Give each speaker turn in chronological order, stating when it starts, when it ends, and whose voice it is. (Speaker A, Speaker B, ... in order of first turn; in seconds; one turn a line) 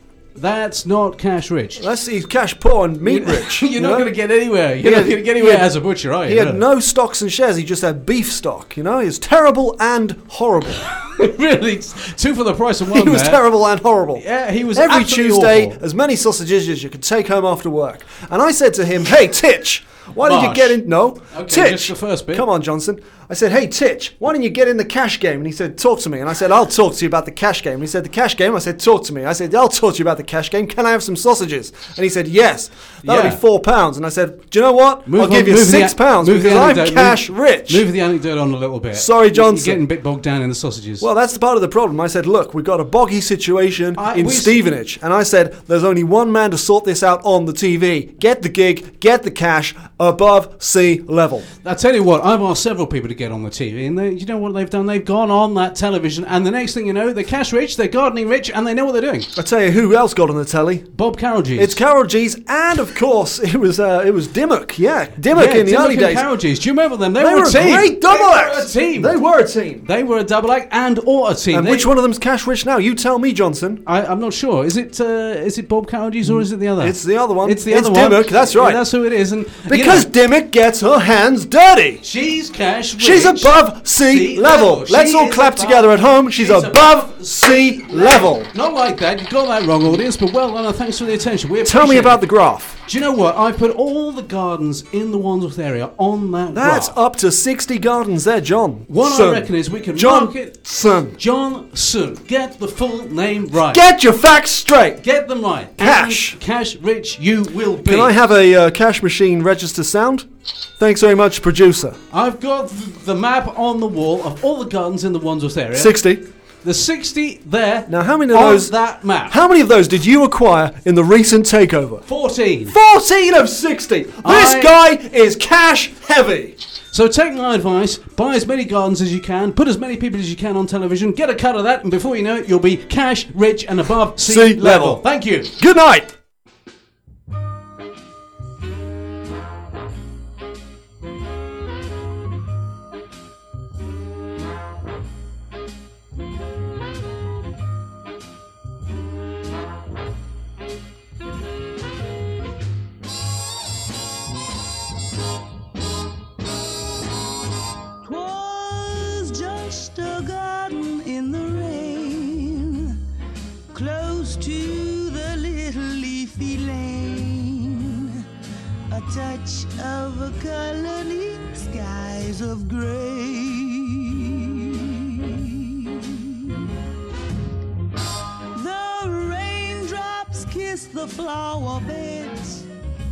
Speaker A: 0.3-1.8
Speaker B: 1.8-4.1
Speaker A: 3.0-6.6
Speaker B: 4.8-10.9
Speaker A: 11.0-13.5
Speaker B: 12.9-37.8
Speaker A: 14.1-15.8
Speaker A: 20.2-22.4
Speaker A: 33.0-33.4
Speaker A: 35.0-41.1
Speaker B: 38.9-39.8
Speaker B: 41.0-51.5
Speaker A: 43.9-44.6
Speaker A: 51.6-59.3
Speaker B: 59.4-60.9
Speaker A: 60.9-61.8
Speaker B: 61.5-66.3
Speaker A: 65.3-69.1
Speaker B: 67.2-69.9
Speaker A: 69.8-71.9
Speaker B: 71.5-73.8
Speaker A: 73.8-80.1
Speaker B: 76.2-78.8
Speaker B: 79.7-82.0
Speaker A: 82.0-92.2
Speaker B: 83.0-88.5
Speaker B: 91.6-92.8
Speaker A: 92.8-96.9
Speaker B: 96.5-101.2
Speaker A: 98.9-103.8
Speaker B: 103.6-105.0
Speaker A: 105.0-108.1
Speaker B: 105.8-106.4
Speaker B: 107.8-112.0
Speaker A: 112.1-116.0
Speaker B: 115.7-116.2
Speaker A: 116.6-119.3
Speaker B: 117.9-122.0
Speaker A: 122.1-122.8
Speaker B: 122.7-126.5
Speaker A: 124.2-124.7
Speaker A: 126.9-135.5
Speaker B: 134.2-136.1
Speaker C: 158.0-163.0
Speaker C: 163.7-168.2
Speaker C: 168.9-176.5
Speaker C: 178.5-182.7